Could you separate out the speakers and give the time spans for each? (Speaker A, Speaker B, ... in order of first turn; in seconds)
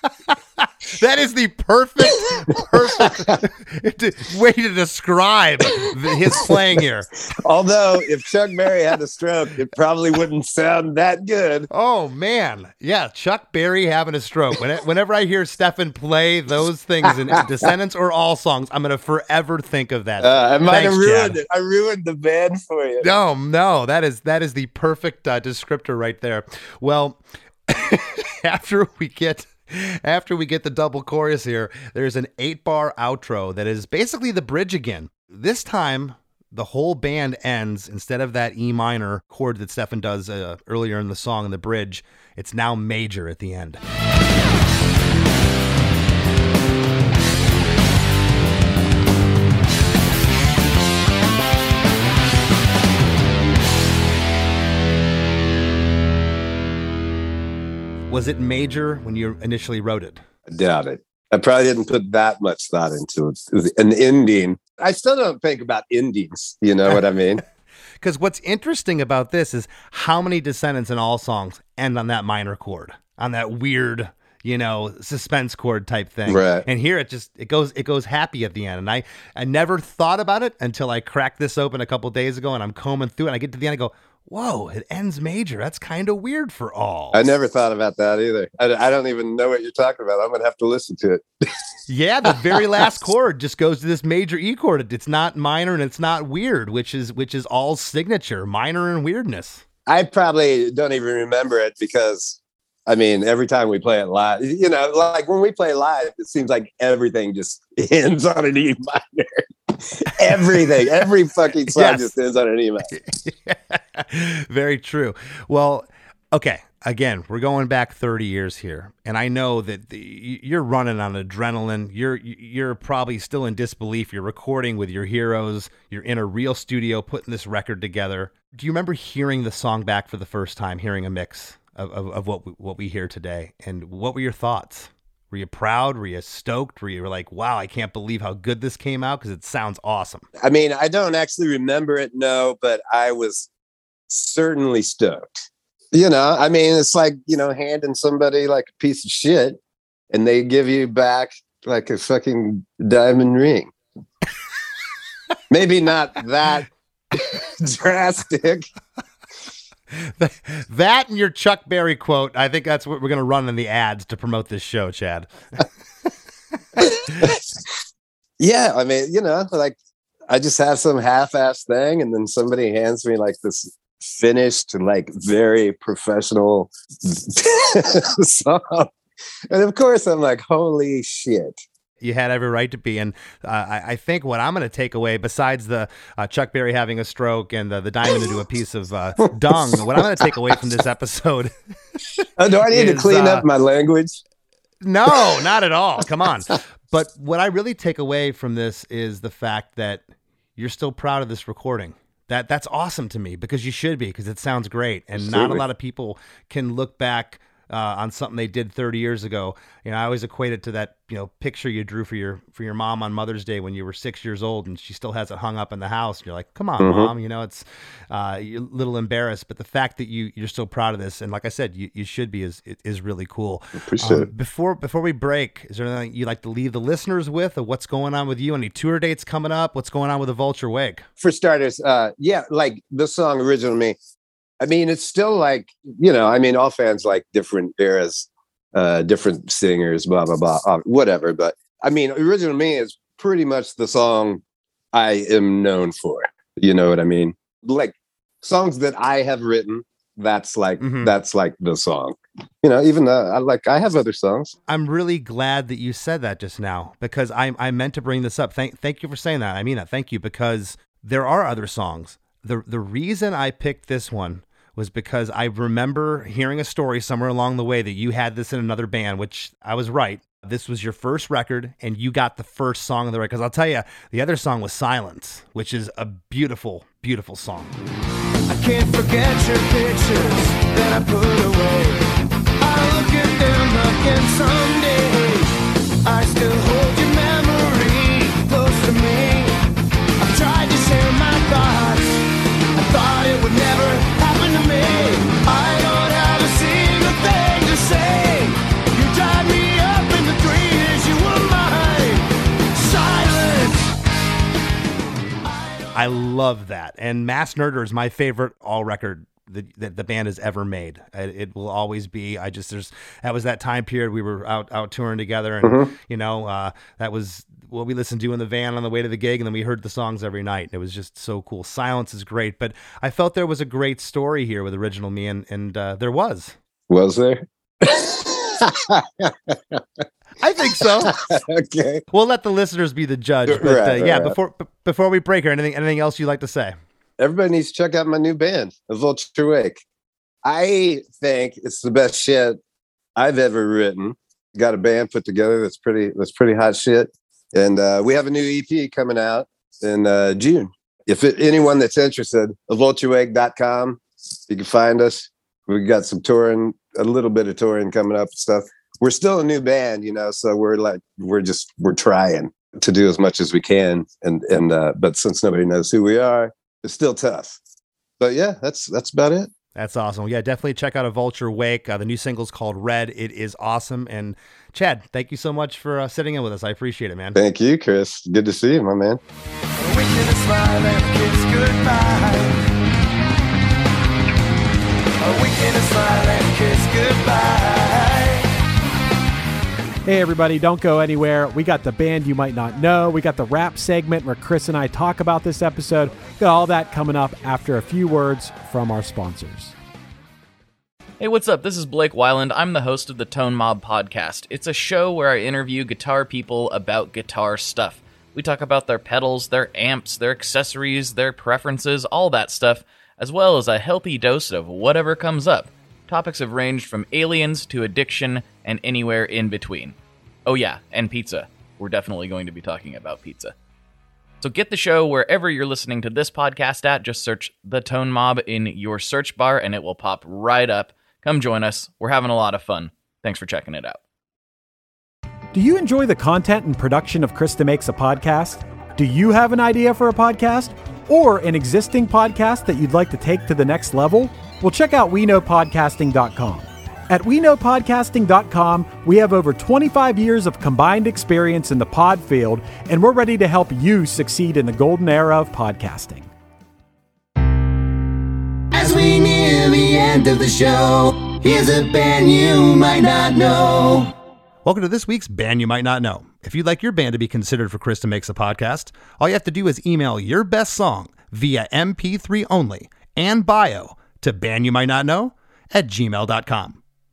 Speaker A: 0.6-7.1, 11.7-21.4, 23.0-43.8, 58.1-60.2, 68.0-87.3, 91.9-99.6, 111.7-112.1, 112.9-140.3, 160.0-165.7, 182.0-191.5, 192.7-193.5, 194.8-200.0, 200.6-231.1, 250.8-251.1, 254.7-277.7, 305.9-326.6, 330.4-331.1, 332.1-336.8, 369.8-377.4, 458.7-464.1, 464.6-476.8
Speaker B: 3.0-3.4, 7.4-11.7, 17.1-17.3, 20.2-23.1, 60.5-67.4, 76.3-76.7, 87.1-91.2, 92.4-92.8, 99.9-112.9, 140.4-143.5, 144.1-149.6, 150.1-153.7, 155.5-158.7, 167.0-167.4, 168.4-169.8, 170.3-178.9, 179.5-181.6, 189.5-190.3, 192.4-194.2, 205.2-205.6, 216.8-217.1, 223.9-224.3, 231.2-234.0, 234.6-244.4, 244.9-254.5, 315.6-315.9, 326.9-330.0, 330.8-332.1, 333.5-334.4, 337.2-339.8, 340.4-342.6, 343.2-367.6, 368.2-369.5, 377.4-379.2
Speaker C: 278.5-282.0, 282.6-285.5, 286.1-289.6, 290.2-292.2, 292.9-303.9, 379.8-382.6, 385.2-388.5
Speaker D: 390.1-399.8, 435.5-456.3
Speaker E: 401.2-423.5, 424.4-434.0